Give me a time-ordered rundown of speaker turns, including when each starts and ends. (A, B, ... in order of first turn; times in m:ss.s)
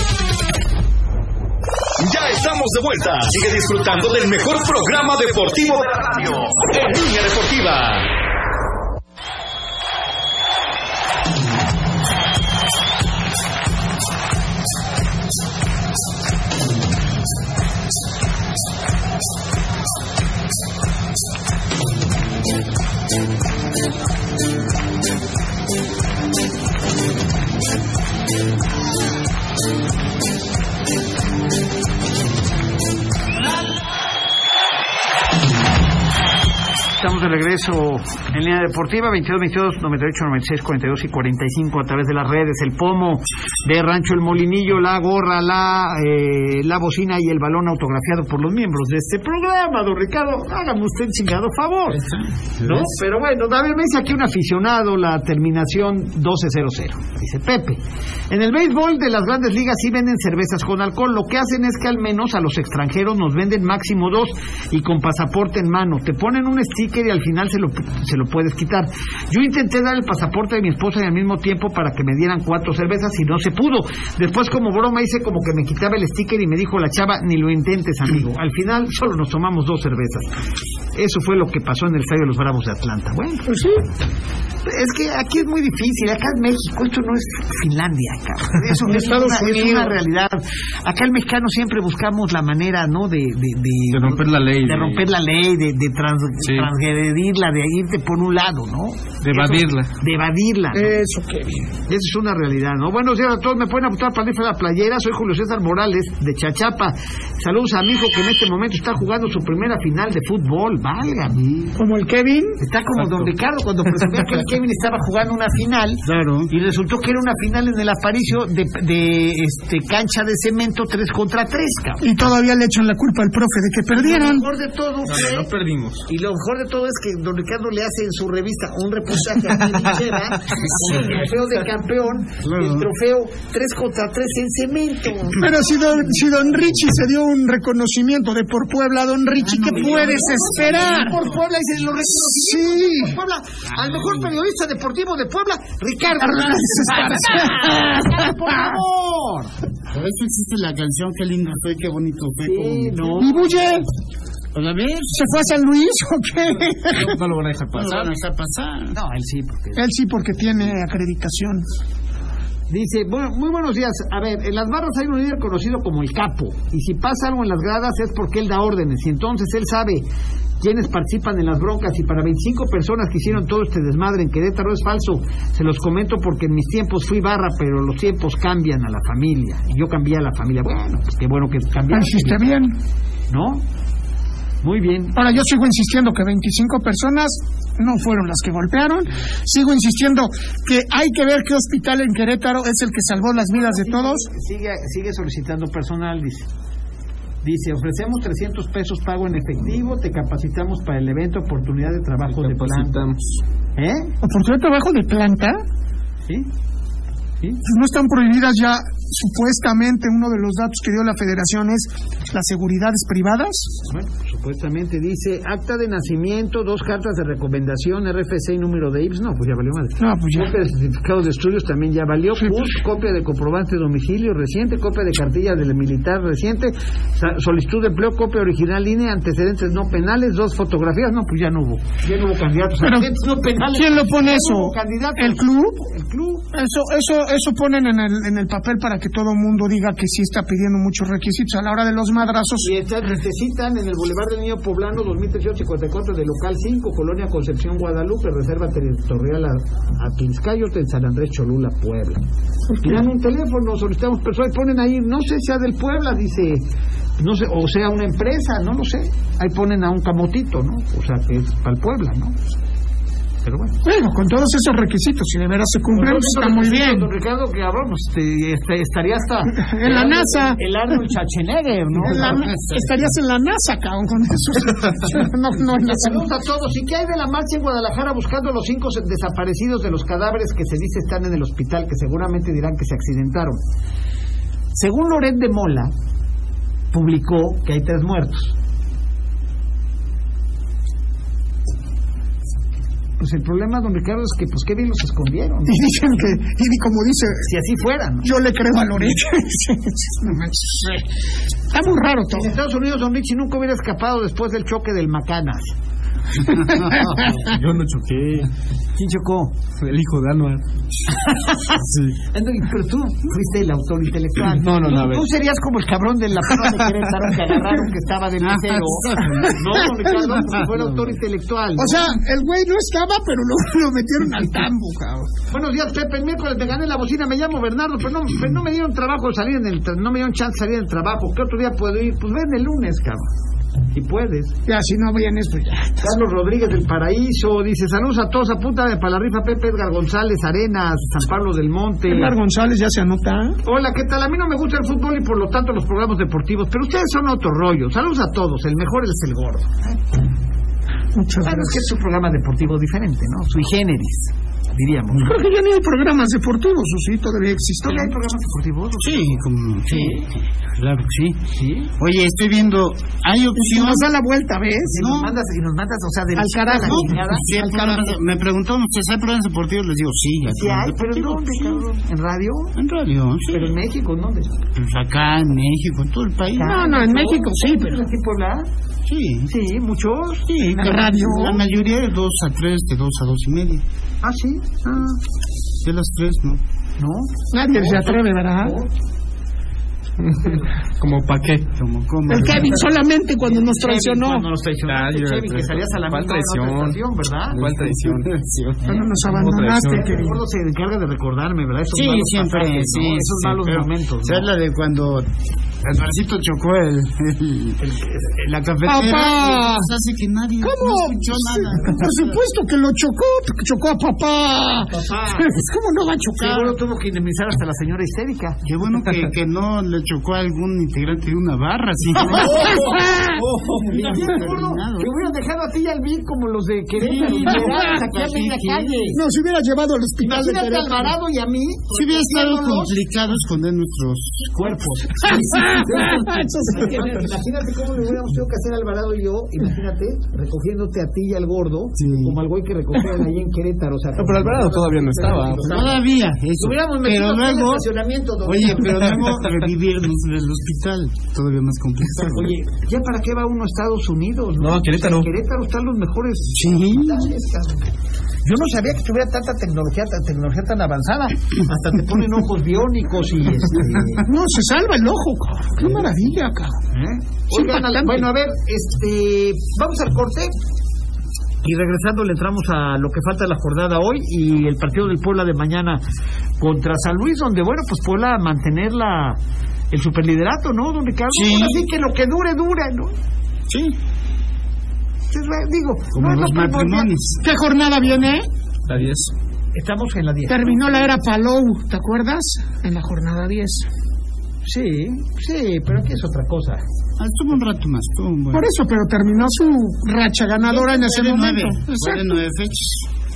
0:02.0-0:08.1 A
0:37.0-0:52.0 B
0:51.9-0:52.9 C
0:52.6-1:20.3 B
1:21.0-1:23.5 B
1:23.5-1:23.8 D
1:24.6-1:40.9 B
1:28.7-1:30.0 D
1:33.9-1:35.1 E
1:36.4-1:36.7 E
1:39.2-1:39.9 E
1:40.7-1:41.7 D
1:41.9-1:51.4 B
1:51.3-1:51.7 C
1:51.8-1:52.6 D
1:52.6-2:02.1 B
1:53.0-1:53.3 E
1:56.0-1:56.5 C
2:02.0-2:04.5 D
2:03.9-2:05.5 B
2:05.1-2:06.0 E
2:06.1-2:15.4 B
2:12.4-2:12.9 C
2:15.3-2:21.2 D
2:19.4-2:21.4 C
2:19.7-2:29.5 B
2:22.4-2:23.2 D
2:23.7-2:24.3 C
2:26.2-2:28.8 D
2:29.9-2:33.2 C
2:32.4-2:33.7 B
2:33.2-2:33.8 D
2:34.5-2:35.2 C
2:35.1-2:37.2 D
2:36.9-2:38.1 E
2:37.7-2:39.0 C
2:38.9-2:39.8 B
2:39.8-2:41.6 D
2:42.7-2:50.1 B
2:50.6-3:02.6 B
3:01.9-3:02.8 D
3:03.3-3:03.6 B
3:04.6-3:05.2 B
3:05.2-3:14.3 D
3:13.4-3:16.5 B
3:17.4-3:23.1 B
3:22.3-3:23.2 E
3:23.8-3:24.1 B
3:24.2-3:25.6 D
3:27.6-3:33.7 D
3:33.9-3:56.4 B
3:40.0-3:40.5 D
3:52.8-3:55.8 D
3:56.5-4:02.7 D
4:02.6-4:12.2 B
4:12.7-4:13.0 D
4:12.8-4:16.6 B
4:17.2-4:22.4 B
4:23.4-4:23.8 B
4:23.8-4:27.1 D
4:25.9-4:32.3 B
4:29.6-4:30.6 D
4:32.0-4:36.3 D
4:32.0-4:33.0 C
4:35.8-4:43.6 B
4:44.8-4:45.9 B
4:46.9-4:48.6 B
4:53.2-4:55.9 B
4:55.7-4:57.5 D
4:57.4-4:58.3 B
4:58.2-5:01.0 D
5:01.7-5:02.5 D
5:02.3-5:05.7 B
5:06.5-5:07.4 D
5:07.3-5:08.5 E
5:09.0-5:09.5 B
5:09.8-5:10.6 E
5:11.2-5:11.8 B
5:11.8-5:12.2 E
5:12.3-5:22.1 B
5:14.5-5:15.3 E
5:18.4-5:19.9 C
5:20.5-5:21.2 C
5:21.8-5:25.3 D
5:25.5-5:33.3 B
5:33.9-5:34.5 B
5:34.7-5:36.1 D
5:36.0-5:42.3 B
5:42.1-5:43.6 D
5:43.6-5:50.0 B
5:51.2-5:51.8 D
5:51.4-5:55.3 B
5:55.1-5:58.1 D
5:57.8-6:00.3 B
5:59.0-6:01.4 C
6:01.6-6:01.9 B
6:02.0-6:04.1 C
6:03.6-6:04.9 D
6:04.9-6:05.3 C
6:04.9-6:08.2 B
6:06.4-6:07.2 D
6:06.8-6:11.8 C
6:10.5-6:12.8 B
6:12.8-6:13.8 C
6:13.5-6:14.5 B
6:14.8-6:17.0 C
6:16.6-6:18.7 B
6:16.6-6:18.1 D
6:19.1-6:19.5 C
6:19.5-6:20.5 B
6:20.5-6:23.8 C
6:20.8-6:21.6 D
6:24.2-6:25.2 B
6:25.8-6:26.6 C
6:27.0-6:28.9 B
6:27.5-6:28.8 D
6:30.2-6:31.7 E
6:31.8-6:32.9 C
6:32.3-6:34.5 D
6:33.4-6:37.7 B
6:34.9-6:38.3 E
6:37.5-6:38.8 C
6:38.8-6:39.1 B
6:38.8-6:40.4 D
6:39.2-6:40.0 E
6:39.8-6:44.5 B
6:41.9-6:45.3 C
6:45.8-6:47.8 C
6:47.8-6:48.7 B
6:48.5-6:52.4 C
6:48.9-6:49.9 D
6:50.6-6:56.7 D
6:54.9-6:55.5 B
6:56.4-6:58.6 B
6:58.6-7:05.3 C
7:02.2-7:09.2 B
7:02.7-7:03.4 D
7:07.0-7:09.0 C
7:09.1-7:11.2 D
7:10.2-7:13.0 B
7:11.9-7:14.5 C
7:14.5-7:26.0 B
7:15.3-7:17.3 D
7:22.0-7:22.4 C
7:24.2-7:26.0 E
7:25.6-7:27.9 C
7:26.6-7:29.3 B
7:28.4-7:32.5 C
7:32.3-7:37.9 B
7:34.6-7:35.3 E
7:36.5-7:37.3 C
7:38.4-7:44.3 B
7:44.2-7:46.8 D
7:46.9-7:50.5 B
7:47.5-7:48.3 D
7:51.6-7:56.0 B
7:56.6-7:59.4 B
7:59.9-8:03.1 B
8:01.3-8:01.8 C
8:03.7-8:04.0 C
8:05.3-8:07.1 B
8:06.1-8:07.4 C
8:07.4-8:08.5 D
8:08.9-8:09.3 E
8:09.8-8:11.2 B
8:10.5-8:13.9 D
8:14.6-8:16.8 B
8:17.2-8:18.7 C
8:18.5-8:22.4 D
8:20.6-8:23.1 C